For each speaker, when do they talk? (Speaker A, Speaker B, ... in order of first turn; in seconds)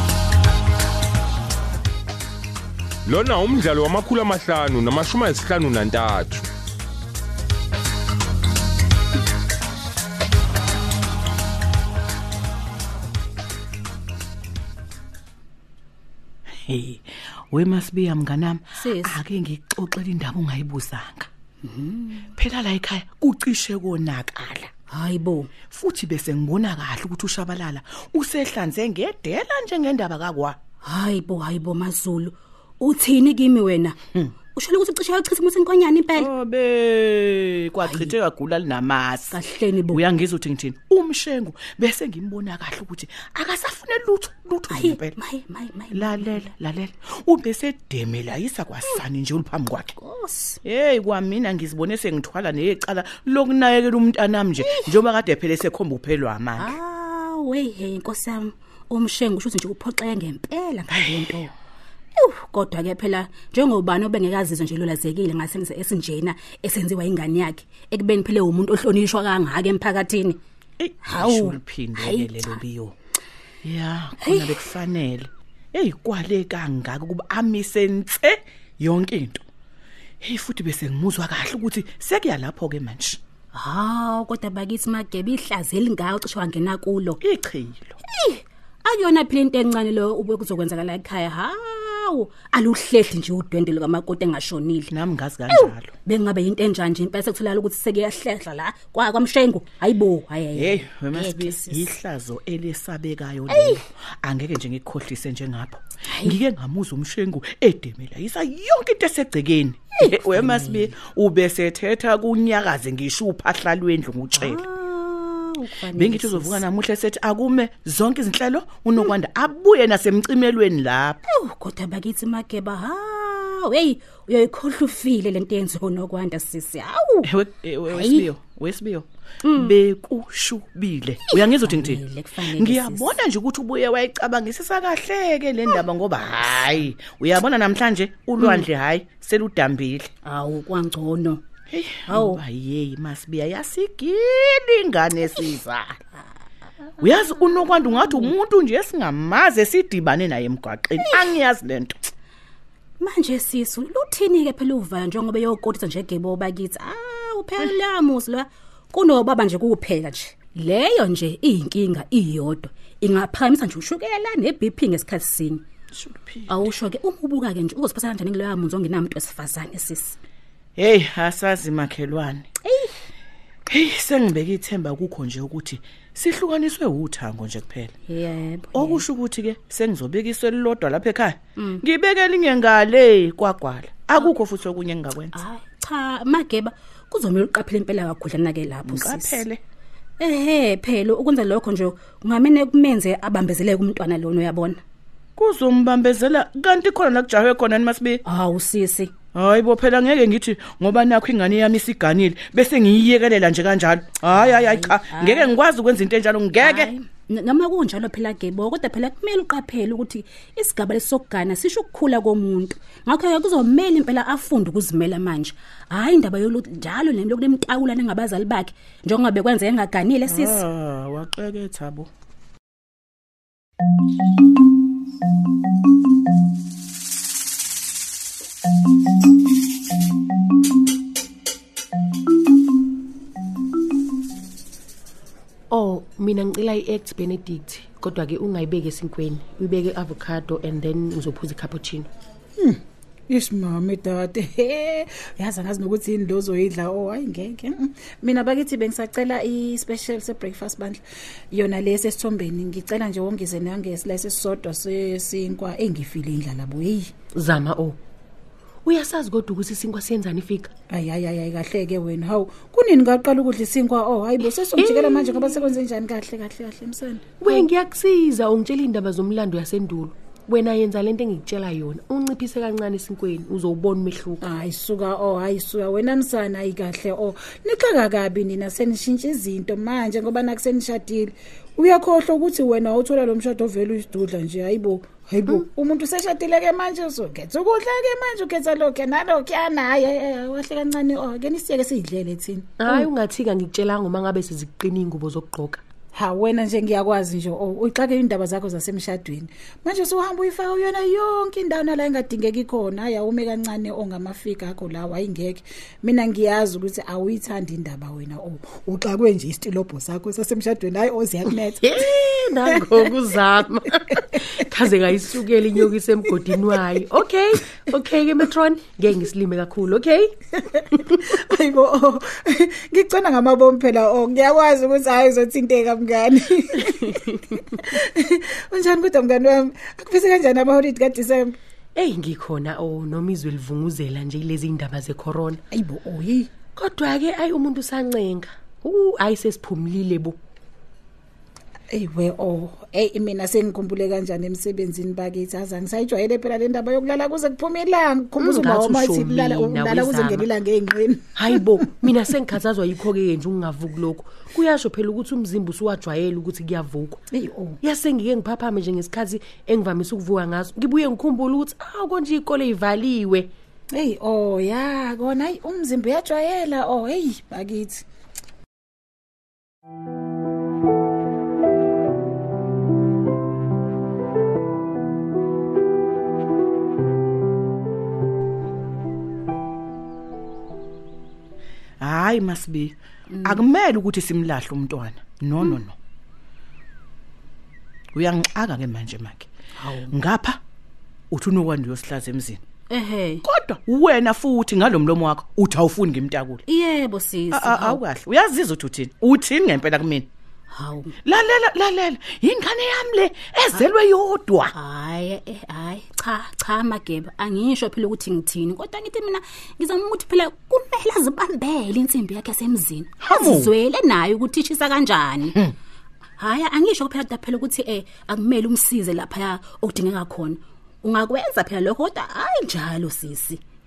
Speaker A: 3.1-6.5
Speaker B: 16.7-21.3, 22.3-24.7, 25.6-30.6, 36.2-39.4, 39.9-45.2, 45.9-50.0, 50.6-56.8, 60.9-61.4, 70.8-72.9, 73.6-79.4, 80.2-83.2, 87.2-88.0, 94.9-96.0, 100.5-114.7, 115.9-121.2, 127.2-140.1, 141.7-146.0, 147.0-152.0, 165.9-166.8, 170.8-172.4, 173.7-177.9, 178.7-185.4, 188.8-189.6, 195.4-198.2, 199.3-206.9, 220.2-222.1, 382.0-385.9, 388.1-389.5, 390.1-390.6, 391.3-392.6, 393.5-396.6, 397.5-400.3, 401.2-404.7, 413.2-413.7
Speaker C: 18.8-19.2, 21.6-22.3, 24.9-25.6, 30.8-34.0, 34.5-36.3, 37.9-38.1, 39.3-40.0, 44.7-46.4, 50.0-50.6, 54.6-55.0, 56.6-61.5, 62.2-70.4, 71.0-72.6, 74.2-74.6, 83.5-87.2, 88.1-94.9, 95.5-101.9, 103.5-103.8, 106.1-106.4, 110.0-110.9, 114.4-116.6, 121.3-127.3, 127.9-128.3, 129.4-129.7, 131.3-133.2, 138.4-138.7, 140.2-141.4, 142.1-142.4, 151.0-151.3, 153.0-165.6, 166.5-170.2, 172.7-173.0, 178.1-179.1, 181.6-181.8, 185.3-189.4, 190.2-194.8, 198.3-199.2, 204.3-205.5, 206.6-220.6, 383.4-383.6, 389.8-390.1, 392.9-393.4, 396.7-398.0, 400.7-401.1, 404.8-415.6, 416.4-423.6
Speaker D: 235.7-242.1, 257.4-258.0, 258.9-260.7, 264.8-265.7, 267.4-274.4, 292.8-295.8, 311.8-320.4, 332.0-335.6, 336.8-340.4, 348.4-350.5, 351.4-357.2, 357.8-363.5
Speaker E: 242.6-257.1, 260.9-267.7, 274.4-293.1, 296.1-313.1, 320.7-331.6, 335.7-336.5, 341.9-351.6, 357.3-357.8, 363.9-368.0